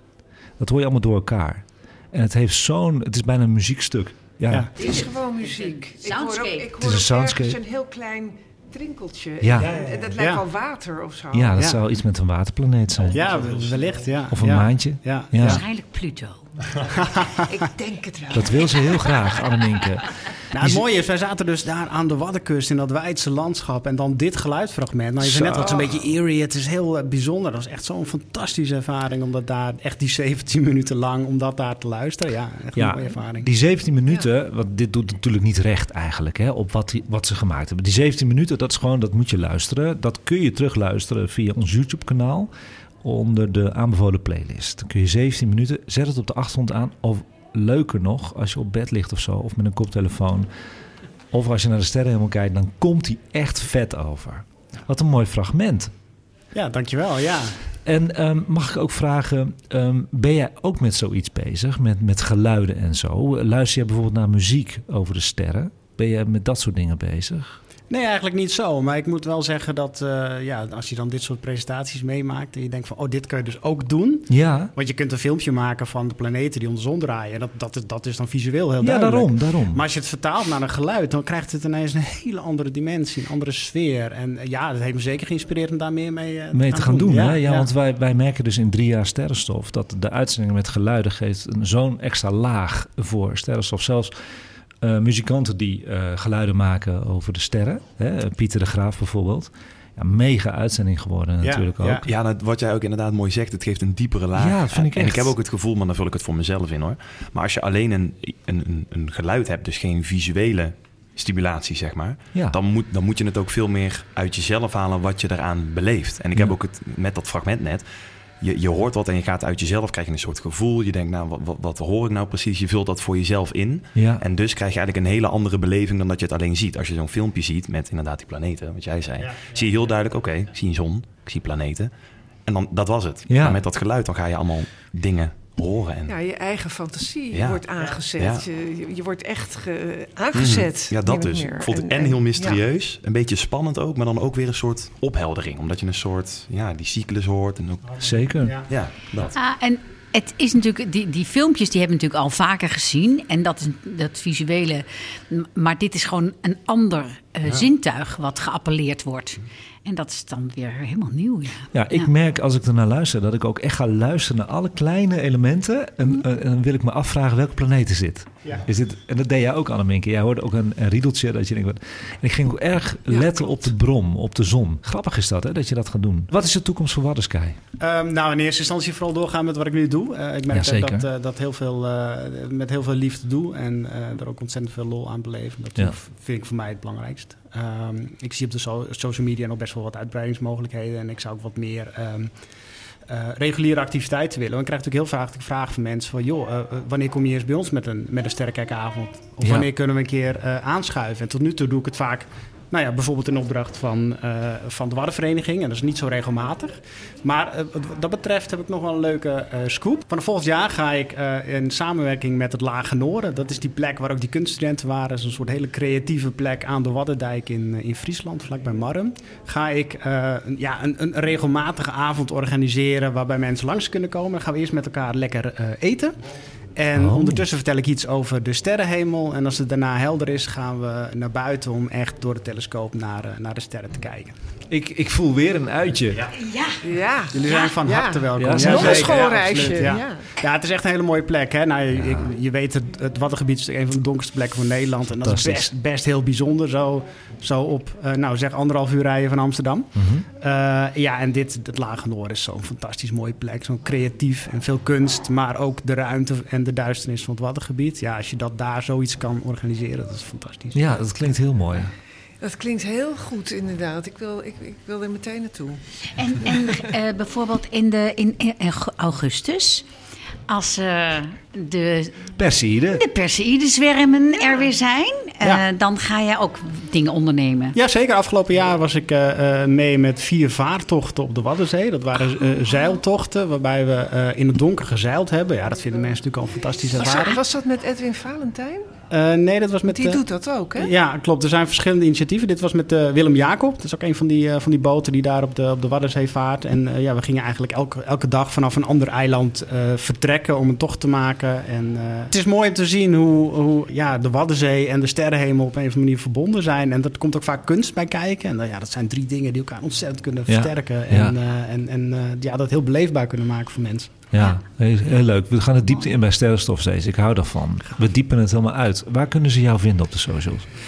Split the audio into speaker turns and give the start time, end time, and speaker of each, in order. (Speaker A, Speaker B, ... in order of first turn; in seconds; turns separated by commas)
Speaker A: 0.6-4.7, Speaker B: 4.8-11.6, Speaker C: 4.8-6.7, Speaker A: 6.8-7.6, Speaker A: 9.4-9.7, Speaker D: 9.6-10.2, Speaker E: 10.2-10.4, Speaker A: 11.3-13.2, Speaker D: 13.0-14.1, Speaker E: 13.1-15.6, Speaker A: 14.3-15.6, Speaker C: 15.4-16.4, Speaker E: 17.0-17.3, Speaker B: 17.5-19.2, Speaker A: 18.3-20.8, Speaker E: 20.5-33.5, Speaker A: 25.2-25.8, Speaker B: 25.6-25.8, Speaker A: 32.8-42.5, Speaker A: 43.0-50.5, Speaker A: 51.3-55.9, Speaker E: 56.5-57.6, Speaker A: 57.8-67.6, Speaker E: 67.9-87.7, Speaker A: 74.3-74.7, Speaker A: 78.8-79.8, Speaker A: 86.5-94.1, Speaker A: 94.8-102.0, Speaker E: 101.4-102.0, Speaker D: 102.0-117.9, Speaker A: 104.3-105.3, Speaker A: 112.3-112.6, Speaker D: 118.4-131.9, Speaker A: 123.9-124.2, Speaker E: 129.2-129.7, Speaker D: 132.4-136.2, Speaker A: 133.3-133.6, Speaker B: 136.1-142.6, Speaker D: 137.3-138.4, Speaker D: 140.3-148.0, Speaker E: 147.8-148.7, Speaker A: 148.0-148.7, Speaker D: 148.7-149.3, Speaker C: 149.3-162.1, Speaker A: 161.7-177.6, Speaker E: 177.8-192.3, Speaker A: 180.5-181.1, Speaker E: 193.1-226.2, Speaker A: 199.4-199.7, Speaker E: 226.8-234.3, Speaker A: 226.9-227.4, Speaker A: 234.7-236.3, Speaker C: 236.4-236.7, Speaker B: 236.8-240.2, Speaker E: 237.3-261.3, Speaker C: 237.4-237.7, Speaker A: 238.4-240.0, Speaker A: 241.9-242.3, Speaker A: 245.2-245.7, Speaker A: 249.9-250.2, Speaker A: 260.7-261.9, Speaker B: 262.4-265.8, Speaker C: 266.1-269.8, Speaker C: 270.5-272.2, Speaker A: 272.4-273.0, Speaker C: 272.9-277.8, Speaker E: 277.7-287.4, Speaker B: 286.9-288.9, Speaker E: 289.1-290.2, Speaker B: 289.9-290.9, Speaker E: 290.8-314.1, Speaker A: 310.5-311.4, Speaker A: 314.3-320.7